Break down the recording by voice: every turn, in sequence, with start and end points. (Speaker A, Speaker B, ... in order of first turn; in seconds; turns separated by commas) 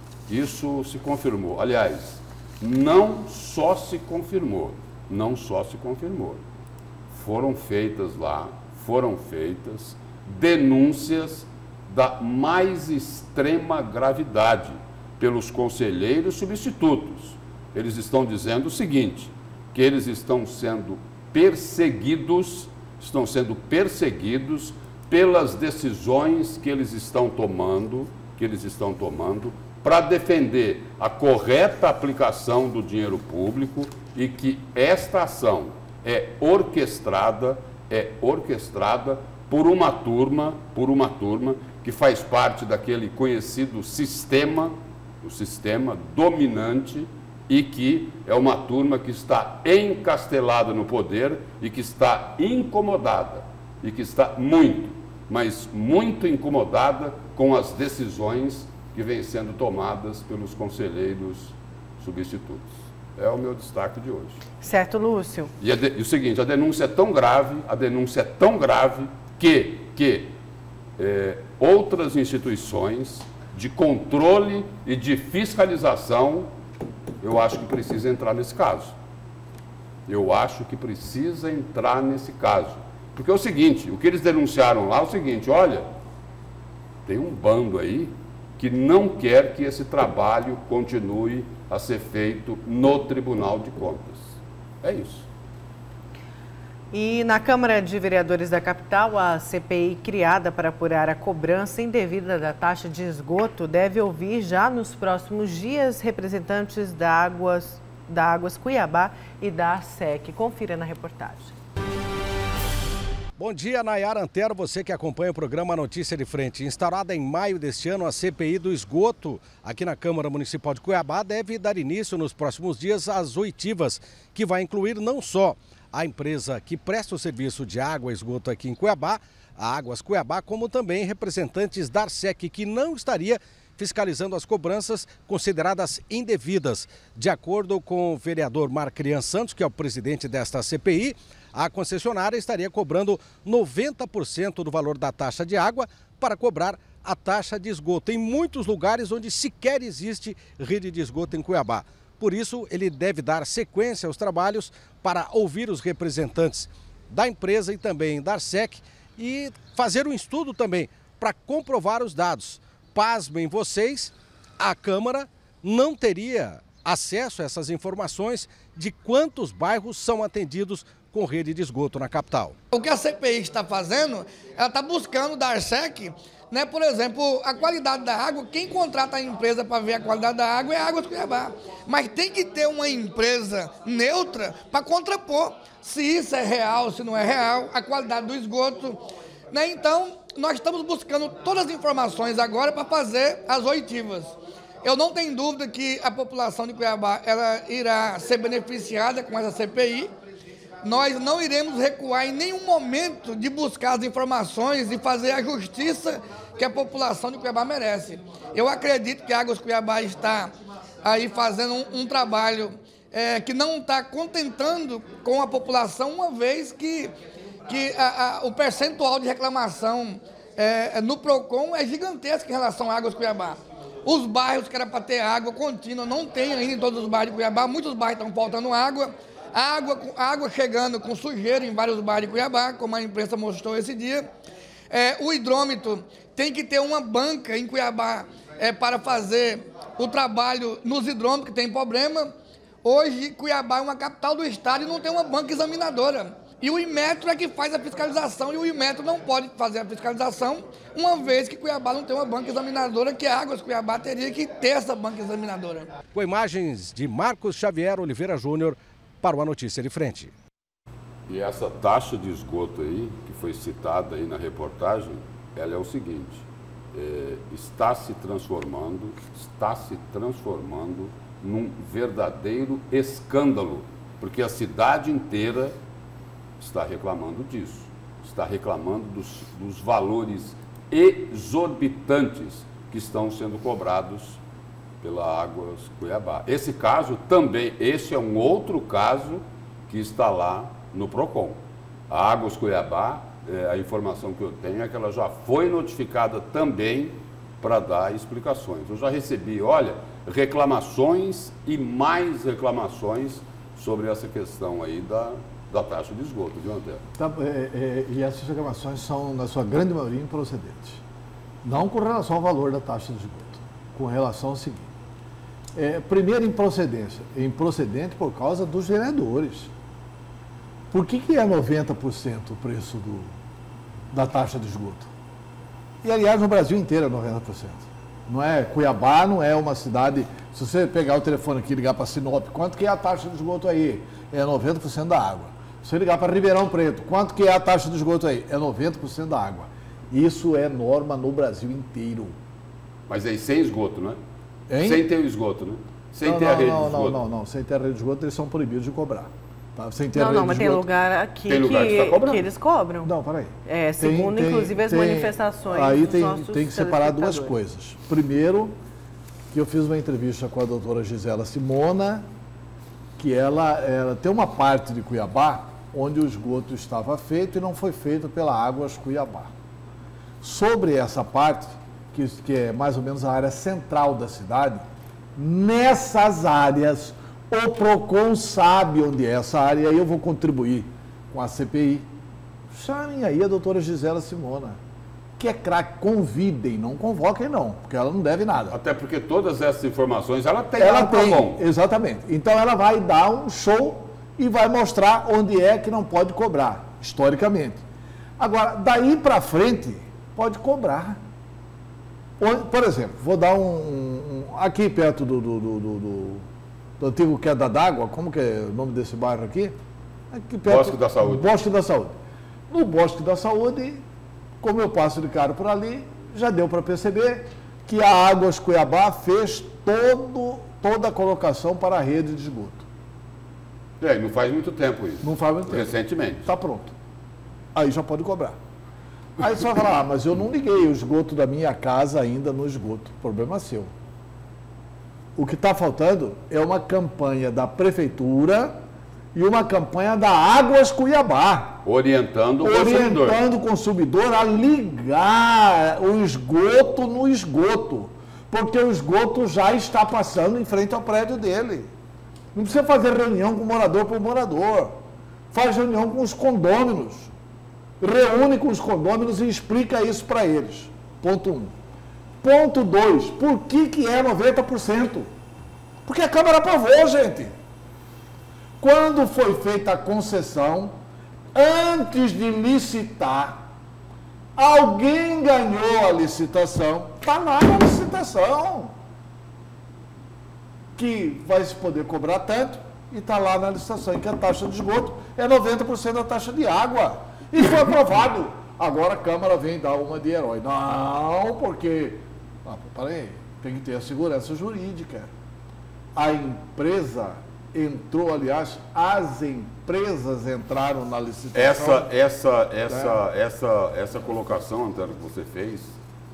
Speaker A: 0.3-6.4, Speaker A: 7.1-64.4, Speaker B: 64.6-65.5, Speaker A: 65.6-70.3, Speaker A: 71.0-76.5, Speaker A: 77.2-79.0, Speaker A: 80.1-85.8, Speaker A: 87.0-95.3, Speaker B: 96.9-111.5, Speaker C: 113.4-172.6, Speaker D: 172.7-200.1, Speaker D: 200.8-217.1, Speaker D: 217.7-234.3, Speaker D: 234.9-242.3, Speaker D: 242.8-255.9, Speaker C: 256.1-260.3, Speaker A: 261.3-275.7, Speaker A: 276.6-284.4, Speaker A: 285.0-307.0, Speaker E: 307.2-311.0, Speaker E: 311.6-314.9, Speaker E: 315.7-319.7, Speaker E: 320.9-323.3, Speaker E: 324.1-325.1, Speaker E: 326.0-342.4, Speaker A: 343.1-344.2, Speaker E: 344.7-345.0, Speaker A: 344.8-347.2, Speaker E: 346.2-350.9, Speaker B: 350.1-353.1, Speaker A: 351.5-352.4, Speaker E: 353.0-358.7, Speaker B: 353.6-357.5, Speaker E: 359.5-362.2, Speaker E: 363.2-369.5, Speaker E: 370.4-374.9, Speaker E: 375.4-382.1, Speaker E: 382.7-384.8, Speaker E: 385.4-388.8, Speaker A: 388.7-391.6, Speaker E: 390.8-397.8, Speaker E: 398.4-401.2, Speaker E: 402.4-406.4, Speaker E: 407.0-409.8, Speaker E: 410.3-412.2, Speaker A: 410.6-411.5, Speaker E: 412.7-414.0, Speaker E: 414.6-422.9, Speaker A: 424.0-426.5, Speaker E: 425.2-425.9, Speaker E: 426.4-426.9, Speaker E: 427.7-428.6, Speaker E: 429.4-433.9, Speaker E: 435.4-438.8, Speaker E: 439.3-441.8, Speaker A: 441.8-443.4, Speaker E: 442.6-451.9, Speaker E: 452.5-454.9, Speaker E: 455.5-457.3, Speaker E: 458.0-461.7, Speaker E: 462.4-465.3, Speaker E: 466.0-467.5, Speaker E: 468.8-470.9, Speaker E: 471.5-473.6, Speaker E: 474.6-478.9, Speaker E: 480.9-495.3, Speaker E: 496.1-502.1, Speaker A: 501.5-506.0, Speaker E: 502.9-503.2